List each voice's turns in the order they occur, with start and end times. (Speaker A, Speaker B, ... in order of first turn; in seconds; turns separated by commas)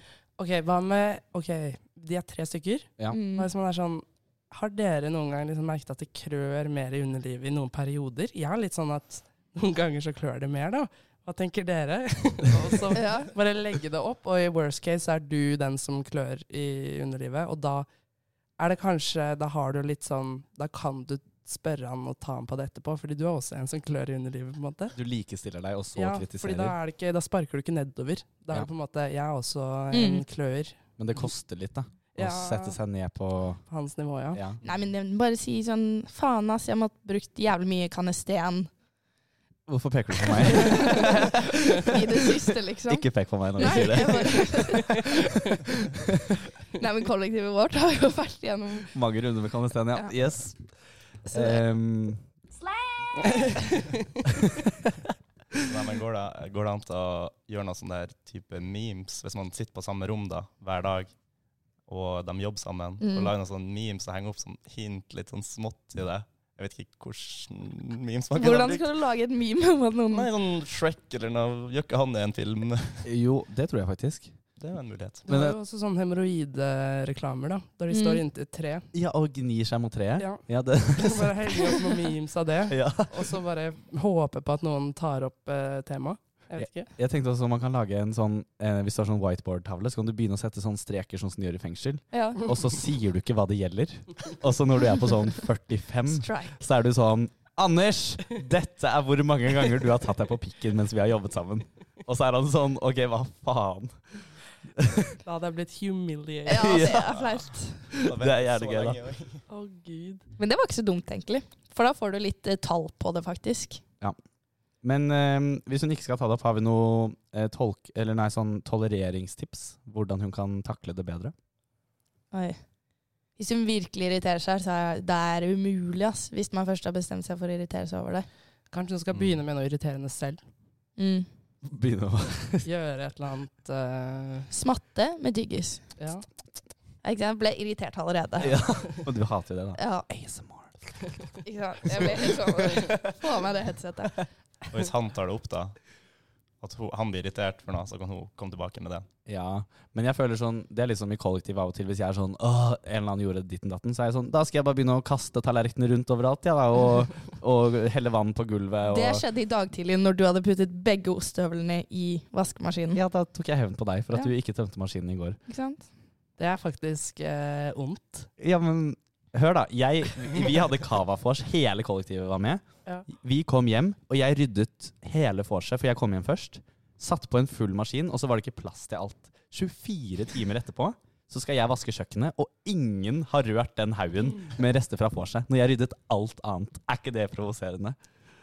Speaker A: 0.4-17.9, Speaker B: 3.1-3.5, Speaker B: 12.9-13.3, Speaker A: 18.6-25.0, Speaker C: 24.9-26.8, Speaker A: 25.9-30.8, Speaker B: 29.9-30.2, Speaker C: 31.0-33.6, Speaker A: 32.1-32.8, Speaker A: 33.7-34.4, Speaker C: 34.3-34.6, Speaker B: 34.6-38.7, Speaker C: 39.7-46.3, Speaker B: 40.3-43.1, Speaker B: 43.6-45.1, Speaker A: 43.6-44.8, Speaker B: 46.7-49.0, Speaker C: 48.9-50.7, Speaker C: 51.2-52.2, Speaker B: 51.3-51.6, Speaker A: 53.2-54.0, Speaker C: 54.3-54.9, Speaker D: 55.6-61.1, Speaker D: 61.9-69.0, Speaker B: 63.0-63.3, Speaker B: 68.3-70.3, Speaker D: 70.1-73.1, Speaker C: 73.0-74.3, Speaker D: 74.6-75.2, Speaker A: 75.3-78.9, Speaker C: 75.3-75.6, Speaker B: 77.9-78.2, Speaker C: 78.9-82.0, Speaker A: 80.2-86.9, Speaker C: 82.7-83.4, Speaker C: 86.6-105.2, Speaker B: 92.1-92.5, Speaker B: 96.1-96.6, Speaker A: 105.2-106.8, Speaker B: 106.5-107.8, Speaker C: 106.5-107.2, Speaker C: 107.9-109.0, Speaker D: 107.9-109.4, Speaker A: 109.5-110.2, Speaker B: 110.4-113.8, Speaker C: 114.8-121.3, Speaker B: 122.3-122.6, Speaker B: 123.4-128.3, Speaker A: 128.7-130.4, Speaker B: 131.0-131.3, Speaker C: 131.6-132.7, Speaker A: 132.6-134.5, Speaker B: 134.5-135.8, Speaker A: 136.0-136.2, Speaker B: 137.0-138.6, Speaker C: 138.4-141.1, Speaker B: 139.8-140.1, Speaker B: 141.4-144.2, Speaker C: 141.9-142.9, Speaker D: 144.7-145.8, Speaker D: 146.6-149.1, Speaker C: 149.2-159.2, Speaker B: 158.9-163.0, Speaker C: 162.9-165.4, Speaker B: 165.5-165.9, Speaker A: 166.4-168.3, Speaker C: 168.4-188.0